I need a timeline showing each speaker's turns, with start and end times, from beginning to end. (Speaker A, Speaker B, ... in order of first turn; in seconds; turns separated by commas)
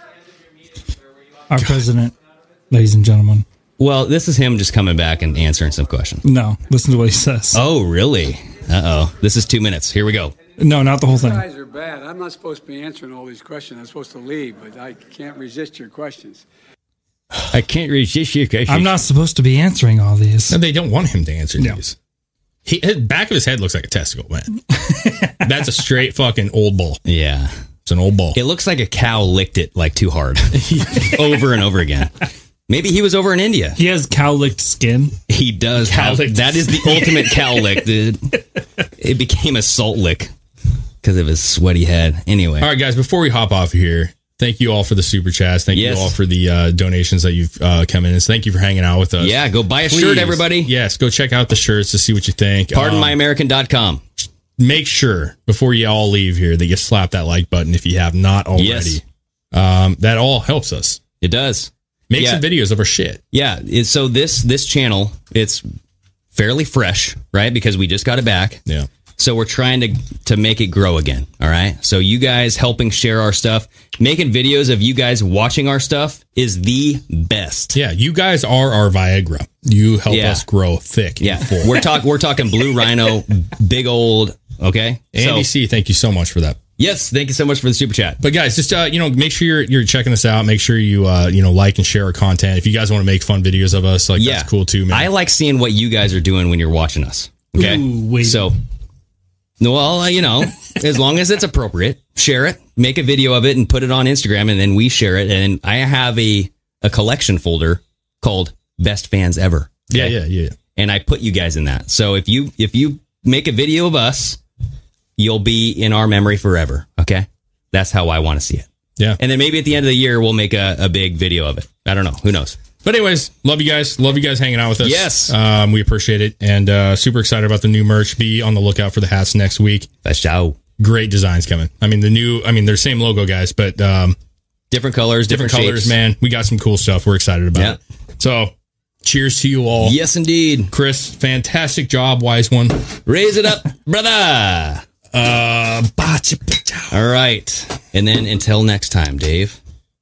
Speaker A: 1.5-2.1, Speaker A: 2.7-3.4, Speaker B: 3.8-6.2, Speaker A: 6.2-7.6, Speaker B: 7.5-10.3, Speaker A: 10.6-11.4, Speaker C: 11.1-16.4, Speaker B: 17.5-19.0, Speaker A: 18.7-20.6, Speaker D: 20.5-21.9, Speaker D: 22.6-24.8, Speaker A: 24.9-25.3, Speaker D: 25.3-27.0, Speaker B: 27.0-27.5, Speaker D: 27.9-28.4, Speaker B: 28.3-33.8, Speaker A: 33.8-35.1, Speaker B: 35.3-40.3, Speaker A: 35.9-37.5, Speaker B: 41.0-42.7, Speaker D: 42.6-53.2, Speaker B: 45.7-46.1, Speaker B: 49.2-50.7, Speaker B: 52.7-54.0, Speaker D: 54.6-61.0, Speaker B: 58.6-59.0, Speaker B: 61.2-62.4, Speaker D: 62.1-63.2, Speaker B: 63.3-65.6, Speaker B: 66.3-68.6, Speaker B: 69.2-77.8, Speaker D: 77.7-81.9, Speaker B: 80.1-80.4, Speaker B: 81.2-85.5, Speaker D: 85.1-86.6, Speaker B: 86.8-88.2, Speaker D: 88.2-95.1, Speaker B: 94.2-98.6, Speaker A: 97.5-98.5, Speaker B: 99.6-110.2, Speaker D: 109.9-110.5, Speaker B: 110.8-114.4, Speaker B: 115.2-118.7, Speaker B: 119.2-122.6, Speaker D: 122.8-129.9, Speaker B: 124.8-125.3, Speaker B: 130.0-130.6, Speaker D: 130.8-134.2, Speaker B: 134.7-136.0, Speaker D: 135.3-138.5, Speaker D: 139.0-140.0, Speaker B: 139.8-140.7, Speaker D: 140.7-142.8, Speaker B: 143.1-144.8, Speaker D: 145.1-147.0, Speaker B: 146.9-149.6